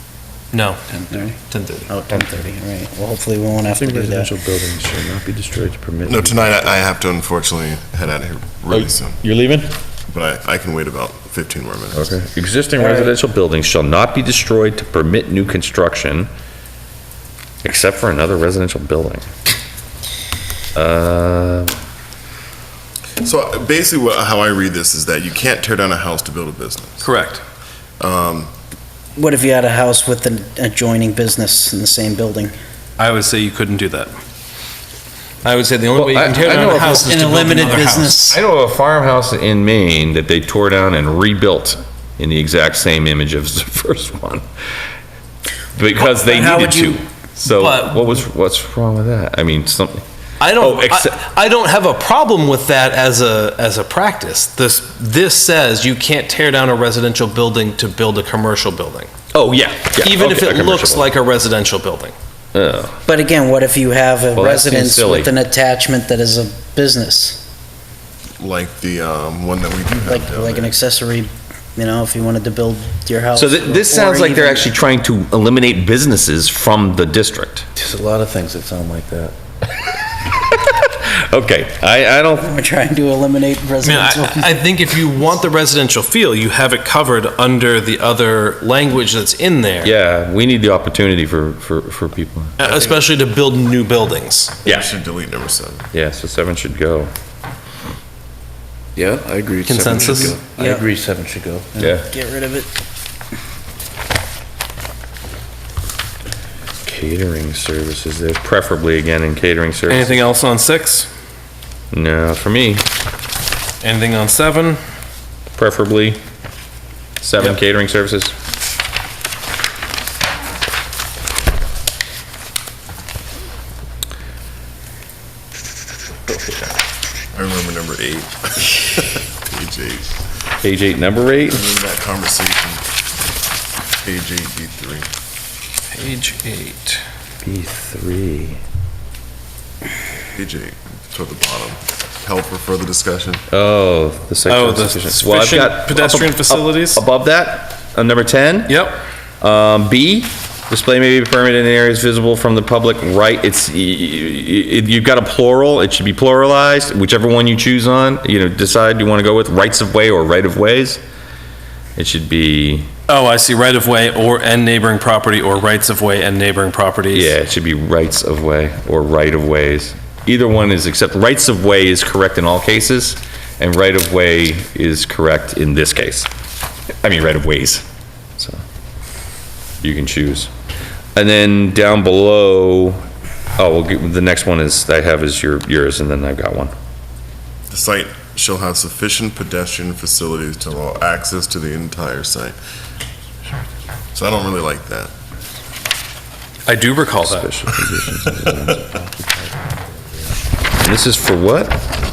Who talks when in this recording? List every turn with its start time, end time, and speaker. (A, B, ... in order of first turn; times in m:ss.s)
0:00.5-0:01.9 A
0:01.9-0:04.3 B
0:03.7-0:06.8 C
0:06.0-0:09.2 D
0:08.7-0:09.7 C
0:10.1-0:12.2 D
0:11.9-0:16.3 C
0:12.8-0:13.1 B
0:17.6-0:19.3 C
0:20.7-0:21.8 C
0:23.2-0:27.1 D
0:27.0-0:27.4 A
0:28.0-0:28.5 D
0:29.2-0:32.5 B
0:33.0-0:34.1 A
0:35.4-0:38.2 A
0:35.9-0:37.1 C
0:36.5-0:38.4 B
0:38.3-0:44.4 C
0:45.7-0:50.0 C
0:46.0-0:47.0 B
0:47.4-0:48.2 A
0:50.4-0:59.1 A
0:50.6-0:51.1 C
0:59.3-1:01.1 C
1:00.0-1:02.1 A
1:02.5-1:03.0 C
1:03.0-1:07.4 B
1:04.3-1:05.4 C
1:08.4-1:10.7 D
1:09.9-1:14.7 B
1:13.3-1:17.7 C
1:17.8-1:19.3 E
1:19.8-1:22.5 C
1:22.4-1:24.6 B
1:23.8-1:29.9 A
1:29.8-1:32.6 C
1:32.6-1:34.6 A
1:34.6-1:35.9 D
1:35.9-1:37.1 C
1:39.0-1:41.9 E
1:39.6-1:40.4 A
1:40.5-1:40.8 B
1:41.8-1:42.1 C
1:41.9-1:42.7 B
1:46.8-1:50.2 C
1:49.9-1:51.1 A
1:51.9-1:52.8 C
1:53.8-1:54.8 A
1:55.6-1:56.2 C
1:57.2-1:58.3 C
2:07.3-2:10.3 D
2:10.6-2:11.6 C
2:11.5-2:12.8 D
2:14.0-2:15.1 D
2:15.9-2:17.0 A
2:17.4-2:18.6 C
2:20.3-2:23.4 D
2:23.5-2:28.9 C
2:24.4-2:27.0 A
2:28.7-2:29.0 A
2:29.4-2:41.0 C
2:42.0-2:42.9 C
2:43.1-2:47.4 A
2:47.1-2:56.3 C
2:57.0-2:57.8 C
2:59.8-3:00.5 C
3:01.2-3:03.0 C
3:03.6-3:06.7 C
3:07.7-3:12.6 D
3:14.1-3:15.1 D
3:16.6-3:17.5 A
3:17.2-3:19.7 C
3:20.8-3:21.8 C